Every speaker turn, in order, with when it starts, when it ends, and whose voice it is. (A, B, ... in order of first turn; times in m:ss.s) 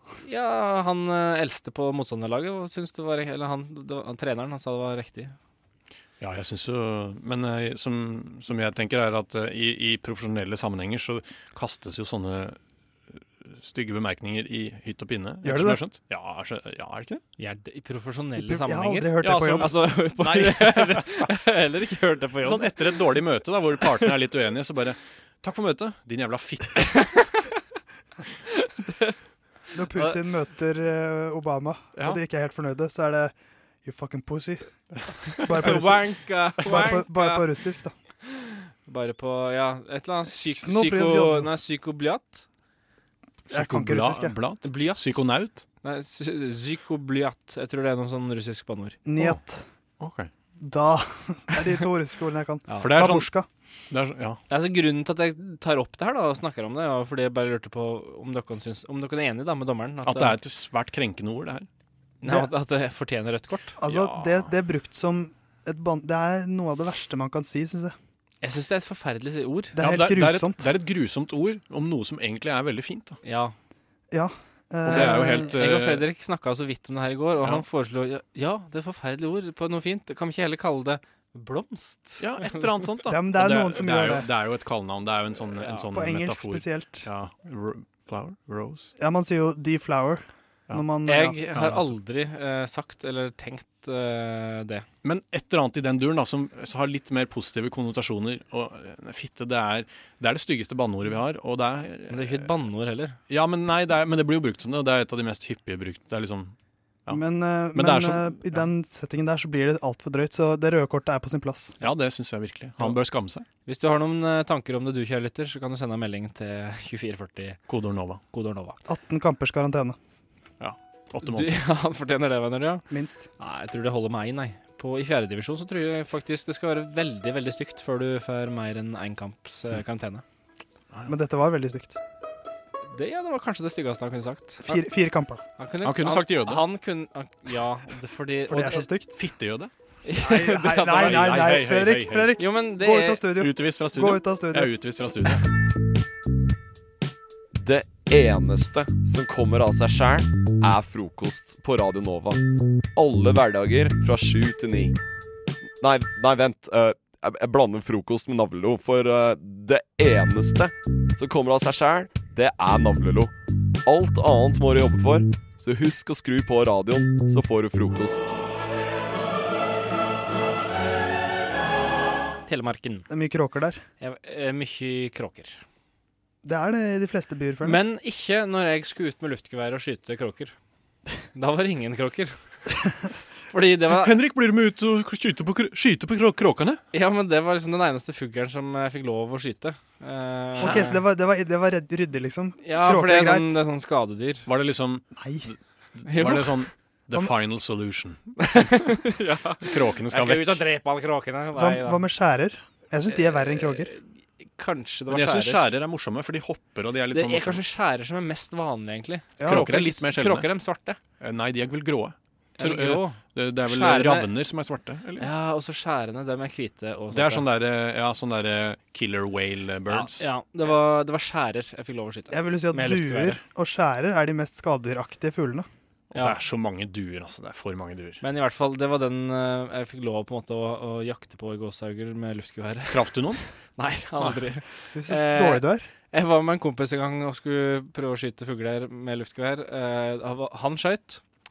0:00.2-0:05.4 A
0:06.2-0:12.6 B
0:13.2-0:17.2 B
0:15.4-0:15.8 C
0:17.4-0:23.0 A
0:18.4-0:19.7 C
0:19.2-0:21.3 B
0:22.4-0:27.2 B
0:28.6-0:29.1 A
0:29.7-0:33.3 C
0:29.9-0:30.2 A
0:33.8-0:34.7 C
0:35.4-0:37.9 C
0:35.6-0:37.5 A
0:38.9-0:42.4 A
0:40.3-0:41.5 C
0:43.5-0:45.7 B
0:43.5-0:44.4 C
0:44.6-0:45.2 A
0:45.8-0:49.0 A
0:49.0-0:49.6 C
0:50.0-0:50.3 B
0:50.6-0:53.5 C
0:52.8-0:53.3 B
0:53.9-0:54.4 B
0:54.5-1:00.4 A
1:00.0-1:01.7 B
1:02.2-1:03.8 A
1:02.2-1:02.5 C
1:03.8-1:08.0 C
1:03.9-1:04.5 B
1:08.4-1:09.8 A
1:09.8-1:10.7 C
1:09.8-1:13.2 B
1:13.2-1:13.5 A
1:14.1-1:15.5 C
1:14.9-1:16.1 B
1:14.9-1:22.6 A
1:22.2-1:28.9 B
1:23.1-1:24.3 C
1:25.9-1:27.1 C
1:29.0-1:31.4 C
1:31.1-1:34.8 A
1:31.5-1:31.9 B
1:35.0-1:42.5 B
1:42.1-1:43.2 A
1:43.3-1:46.5 B
1:47.1-1:51.7 C
1:47.7-1:48.6 B
1:51.8-1:53.5 B
1:53.7-1:57.6 A
1:57.7-1:58.2 B
1:58.3-1:58.8 A
1:58.9-2:00.0 C
2:00.6-2:01.6 B
2:01.2-2:02.9 A
2:02.9-2:03.3 C
2:03.4-2:10.2 A
2:11.1-2:12.0 C
2:12.9-2:14.8 A
2:14.7-2:15.4 C
2:15.6-2:18.9 A
2:15.8-2:16.6 B
2:18.5-2:19.2 C
2:19.1-2:19.7 B
2:20.0-2:21.4 A
2:20.2-2:24.7 C
2:20.8-2:22.3 B
2:22.4-2:23.2 A
2:23.4-2:25.5 B
2:27.5-2:32.4 D
2:33.0-2:35.0 D
2:35.8-2:43.3 D
2:43.8-2:48.4 D
2:52.5-2:53.1 A
2:53.1-2:53.8 C
2:54.0-2:55.6 A
2:56.4-2:57.8 C
2:57.6-3:00.5 A
3:01.4-3:02.4 A
3:03.5-3:04.1 A
3:03.9-3:06.8 B
3:06.9-3:11.0 A
3:10.6-3:13.6 C
3:12.6-3:14.5 A
3:14.5-3:18.8 B
3:15.2-3:15.5 C
3:16.1-3:16.6 A
3:18.4-3:22.0 A
3:19.6-3:20.6 B
3:21.6-3:23.9 C
3:23.1-3:25.7 A
3:25.1-3:27.6 B
3:27.1-3:31.0 A
3:29.4-3:29.7 C
3:29.5-3:30.5 B
3:31.2-3:35.3 B
3:32.6-3:34.3 A
3:35.2-3:37.5 A
3:37.1-3:40.3 B
3:39.9-3:43.4 A
3:42.3-3:45.7 C
3:46.1-3:48.2 B
3:48.2-3:53.2 A
3:52.9-3:53.4 B
3:53.8-4:01.2 A
3:54.9-3:55.9 C